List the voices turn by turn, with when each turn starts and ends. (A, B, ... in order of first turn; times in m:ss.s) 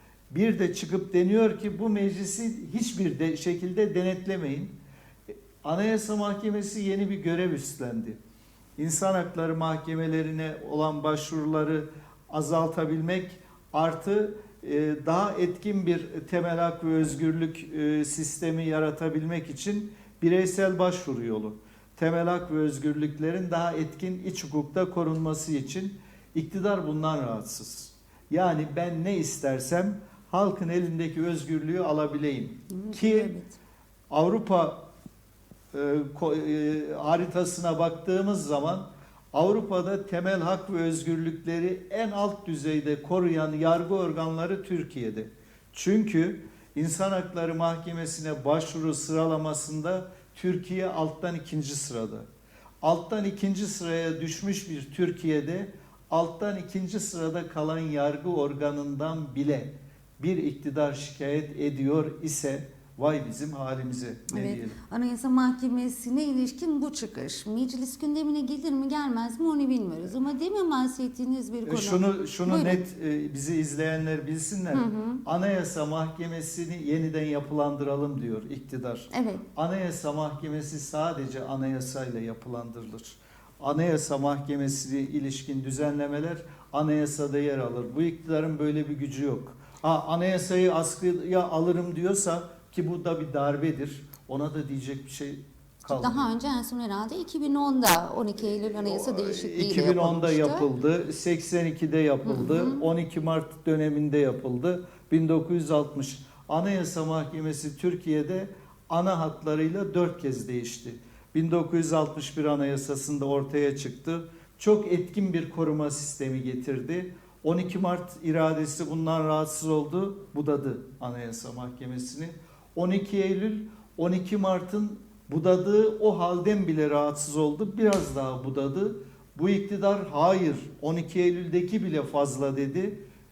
0:00.3-0:04.7 A
0:05.3-0:08.2 A
0:08.8-0:33.3 A
0:32.7-0:33.6 B
0:34.1-0:34.8 A
0:35.7-0:52.3 A
0:52.8-1:04.8 A
1:04.3-1:12.8 B
1:11.6-1:36.3 A
1:14.7-1:15.2 B
1:19.1-1:19.4 B
1:35.9-1:40.7 B
1:38.4-2:13.0 A
1:42.2-1:42.8 B